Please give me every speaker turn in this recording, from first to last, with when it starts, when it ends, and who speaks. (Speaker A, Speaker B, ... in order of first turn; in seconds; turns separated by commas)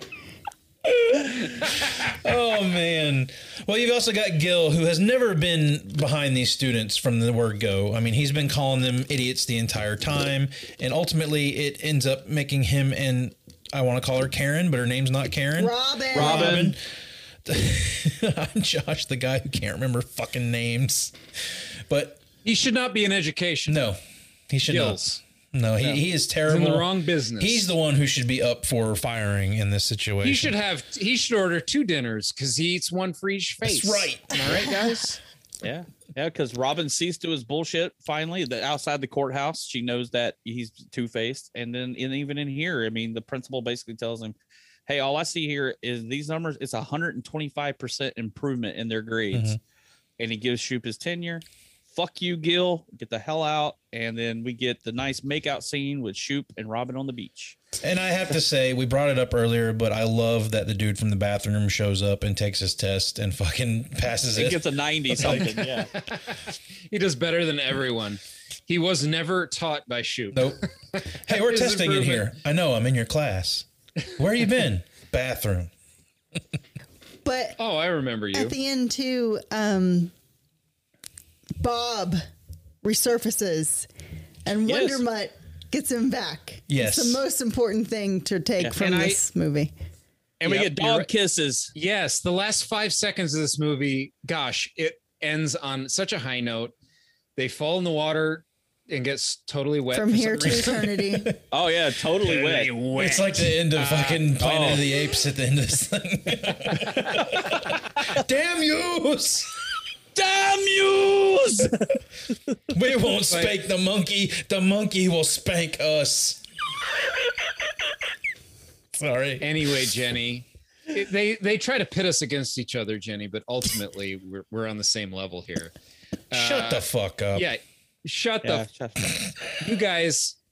Speaker A: 0.8-16.8, Speaker B: 15.6-16.7, Speaker C: 16.1-16.7, Speaker A: 17.4-22.2, Speaker D: 22.4-23.8, Speaker A: 23.7-25.0, Speaker D: 24.6-25.2, Speaker A: 25.5-30.6, Speaker D: 26.4-27.7, Speaker D: 30.2-35.2, Speaker A: 33.6-34.4, Speaker C: 35.6-49.6, Speaker A: 49.3-49.6, Speaker C: 50.2-57.6, Speaker A: 57.8-65.7, Speaker C: 64.3-65.9, Speaker D: 66.0-66.4, Speaker D: 66.9-72.3, Speaker A: 70.3-70.6, Speaker A: 71.2-75.7, Speaker B: 77.2-77.6, Speaker D: 77.6-78.5, Speaker B: 78.3-80.1, Speaker B: 81.6-82.2, Speaker B: 82.8-83.9, Speaker B: 84.4-89.7, Speaker C: 84.6-85.0, Speaker A: 86.7-87.2, Speaker C: 88.6-89.2, Speaker C: 90.4-91.7, Speaker D: 90.4-91.1, Speaker D: 91.7-96.7, Speaker D: 97.3-100.9, Speaker B: 99.9-101.3, Speaker A: 100.8-101.3, Speaker C: 101.5-102.7, Speaker D: 102.2-104.3, Speaker A: 102.9-109.5, Speaker C: 104.4-104.8, Speaker C: 110.1-111.8, Speaker A: 112.7-116.4, Speaker D: 113.3-113.6, Speaker A: 118.9-119.9, Speaker D: 119.4-125.7, Speaker D: 126.3-128.7, Speaker A: 126.3-127.5, Speaker C: 128.4-129.1, Speaker D: 129.6-130.4